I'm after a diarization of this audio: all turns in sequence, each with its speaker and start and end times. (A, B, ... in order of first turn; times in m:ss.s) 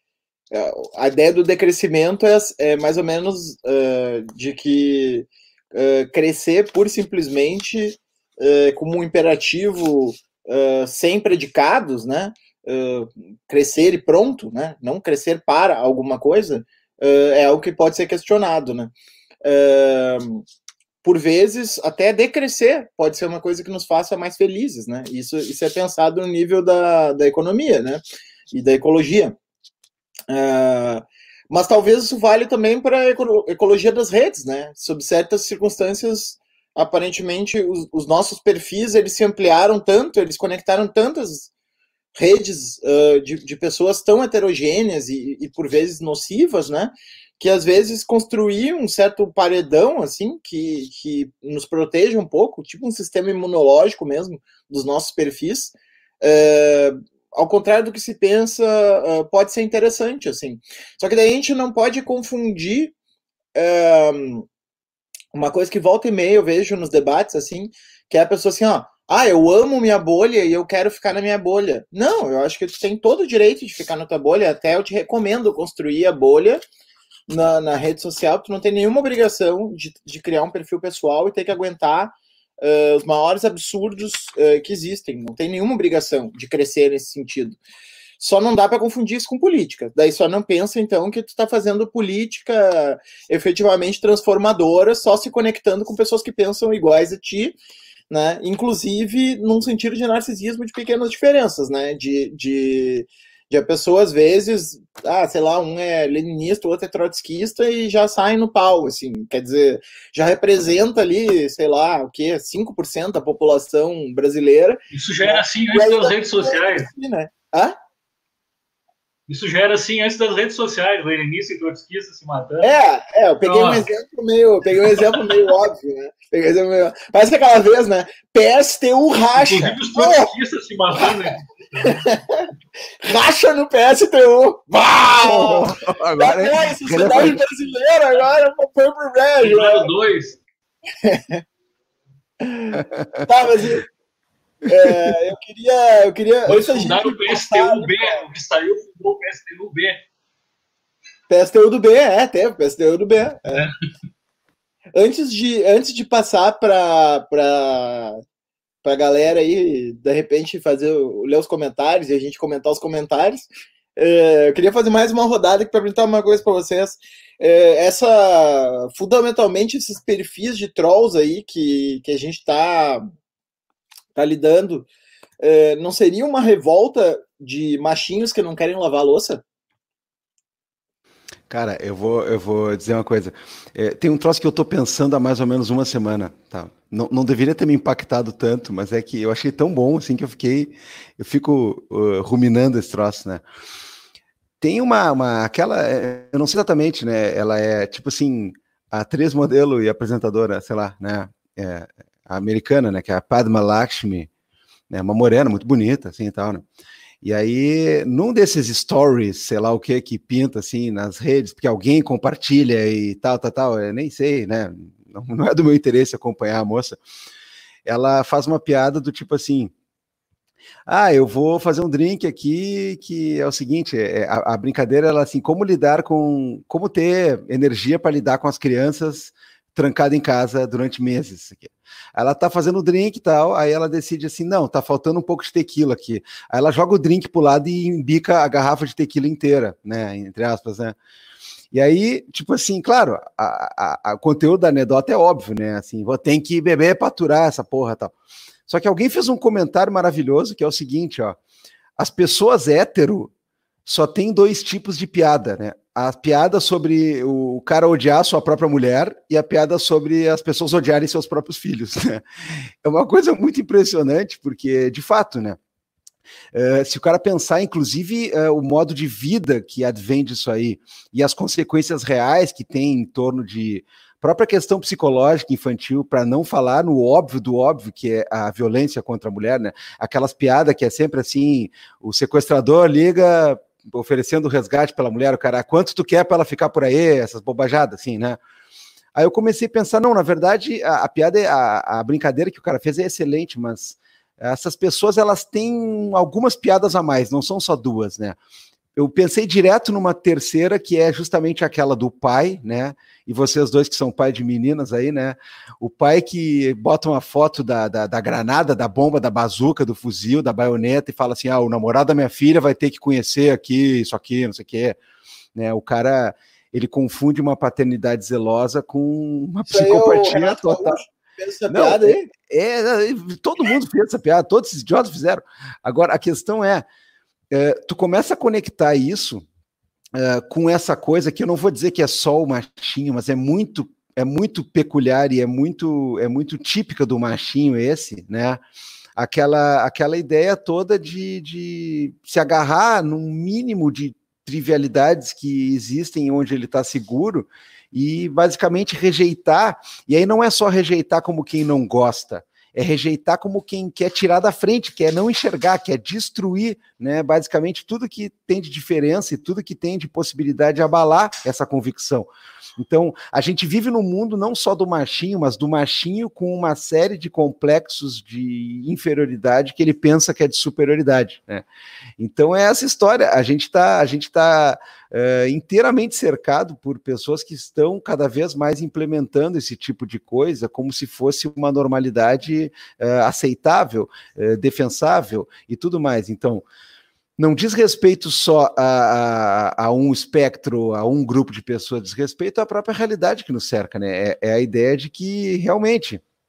0:00.5-0:18.9 A
0:19.4-0:20.4 A
0:21.0-0:29.4 A
0:30.3-0:41.5 A
0:42.2-1:02.9 A
1:03.6-1:04.5 A
1:05.3-1:16.6 A
1:17.3-1:27.6 A
1:28.2-1:37.6 A
1:38.1-1:57.8 A
1:54.9-1:56.9 B
1:59.3-2:02.7 B
2:02.6-2:10.3 A
2:03.4-2:03.9 B
2:04.8-2:05.2 B
2:09.4-2:12.0 B
2:11.8-2:12.4 A
2:13.0-2:19.9 A
2:15.2-2:17.4 C
2:19.4-2:20.4 B
2:21.0-2:21.4 A
2:22.4-2:23.8 A
2:22.7-2:23.3 C
2:24.7-2:28.2 A
2:24.7-2:25.1 C
2:26.5-2:30.0 B
2:31.3-2:33.7 A
2:35.0-2:38.2 A
2:38.8-2:53.0 A
2:54.2-2:54.9 A
2:55.4-2:59.4 A
3:01.5-3:13.4 C
3:14.6-3:24.3 C
3:24.9-3:26.6 C
3:27.2-3:37.0 C
3:37.9-3:39.7 C
3:40.9-4:01.0 C
4:01.7-4:08.1 C
4:08.7-4:11.4 C
4:12.0-4:13.3 C
4:13.9-4:22.2 C
4:22.8-4:25.6 C
4:26.5-4:48.4 C
4:49.2-4:58.4 C
4:59.0-5:15.0 C
5:15.6-5:21.0 C
5:19.7-5:22.2 A
5:21.7-5:26.8 C
5:27.5-5:29.4 C
5:30.2-5:38.6 C
5:39.2-6:11.6 C
6:12.2-6:26.6 C
6:27.4-6:36.2 C